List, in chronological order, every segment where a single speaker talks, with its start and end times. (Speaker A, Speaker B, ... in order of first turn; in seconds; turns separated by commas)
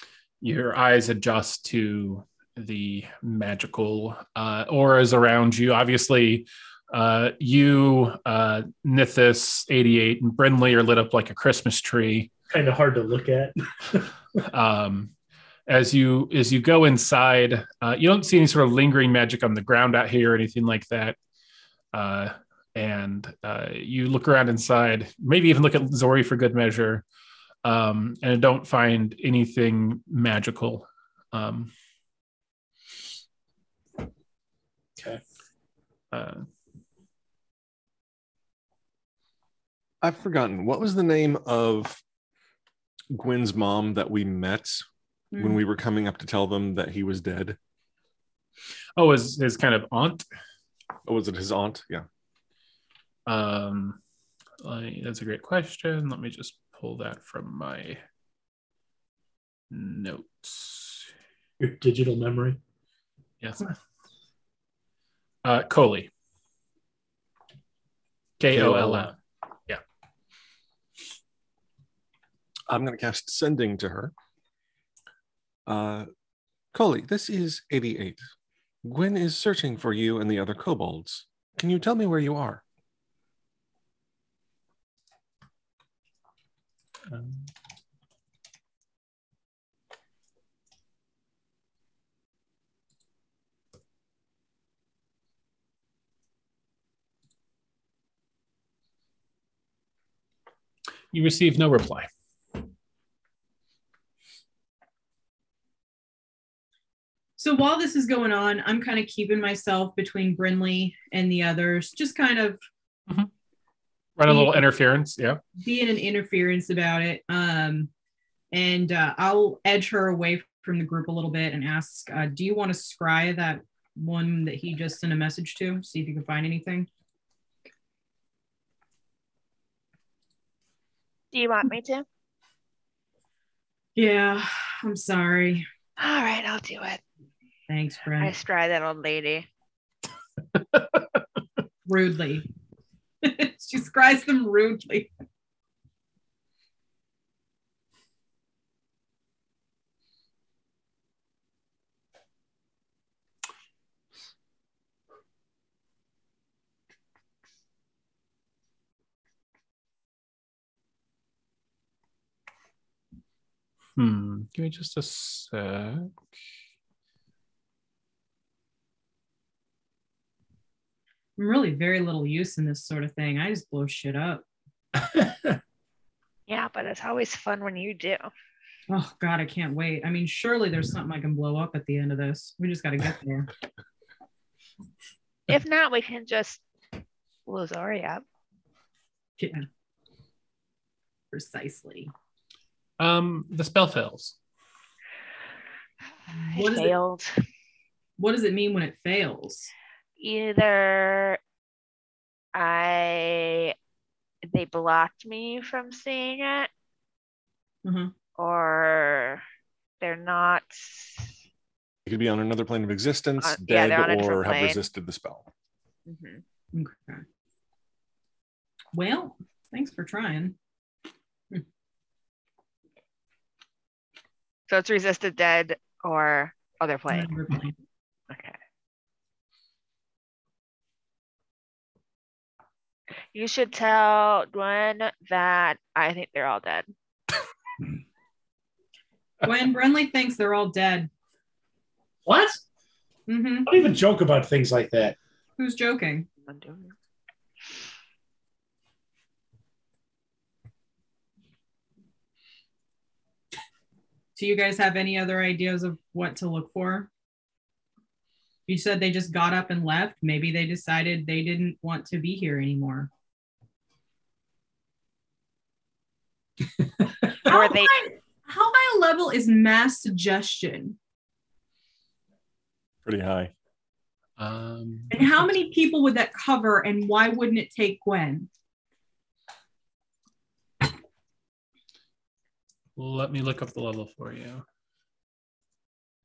Speaker A: 0.4-12.3, Speaker B: 12.5-14.1, Speaker A: 14.5-15.1, Speaker A: 15.7-21.1, Speaker A: 21.9-27.0, Speaker A: 27.6-31.7, Speaker A: 36.1-36.5, Speaker C: 40.0-42.0, Speaker C: 43.1-47.6, Speaker D: 45.3-45.6, Speaker A: 49.0-50.2, Speaker C: 51.0-52.0, Speaker A: 53.3-54.0, Speaker A: 54.6-58.0, Speaker A: 59.7-61.1, Speaker B: 61.6-62.6, Speaker A: 63.4-63.7, Speaker A: 65.4-66.1, Speaker A: 68.4-69.2, Speaker C: 68.5-69.1, Speaker C: 72.7-74.1, Speaker C: 75.7-76.1, Speaker C: 76.7-78.2, Speaker C: 78.8-82.6, Speaker A: 87.1-87.4, Speaker A: 101.1-102.1, Speaker D: 107.4-112.6, Speaker A: 114.2-115.4, Speaker D: 114.3-114.6, Speaker D: 115.6-117.9, Speaker D: 118.5-126.9, Speaker E: 131.3-132.0, Speaker D: 133.9-135.7, Speaker E: 136.0-137.0, Speaker D: 137.7-138.3, Speaker E: 138.2-139.5, Speaker D: 141.9-142.5, Speaker D: 143.2-145.1, Speaker A: 164.0-166.2, Speaker D: 171.4-174.4, Speaker B: 175.0-175.6, Speaker E: 176.5-178.3, Speaker D: 178.9-183.5, Speaker E: 185.5-186.6, Speaker E: 187.4-188.2, Speaker D: 189.4-189.7, Speaker D: 191.3-192.1, Speaker A: 193.0-194.3, Speaker E: 196.4-197.3, Speaker D: 196.5-196.9, Speaker D: 198.2-199.7, Speaker E: 200.2-201.4, Speaker E: 202.5-203.7, Speaker E: 204.5-206.7, Speaker D: 207.8-208.1, Speaker E: 208.4-209.4, Speaker E: 210.0-211.3, Speaker C: 212.1-215.5, Speaker E: 213.4-214.8, Speaker E: 216.1-216.4, Speaker D: 216.7-217.2, Speaker D: 218.9-220.5, Speaker E: 224.7-227.3, Speaker D: 227.1-227.7, Speaker E: 228.3-228.6, Speaker E: 233.3-236.9, Speaker D: 239.4-241.1, Speaker B: 242.2-242.6, Speaker D: 243.3-243.7, Speaker B: 243.7-245.2, Speaker D: 245.6-246.3, Speaker E: 246.4-246.9, Speaker D: 254.4-257.1, Speaker D: 258.7-263.1, Speaker B: 267.0-267.3, Speaker D: 267.4-271.0, Speaker E: 267.5-267.9, Speaker C: 273.0-273.5, Speaker A: 274.4-275.3, Speaker D: 275.1-278.5, Speaker A: 283.0-284.6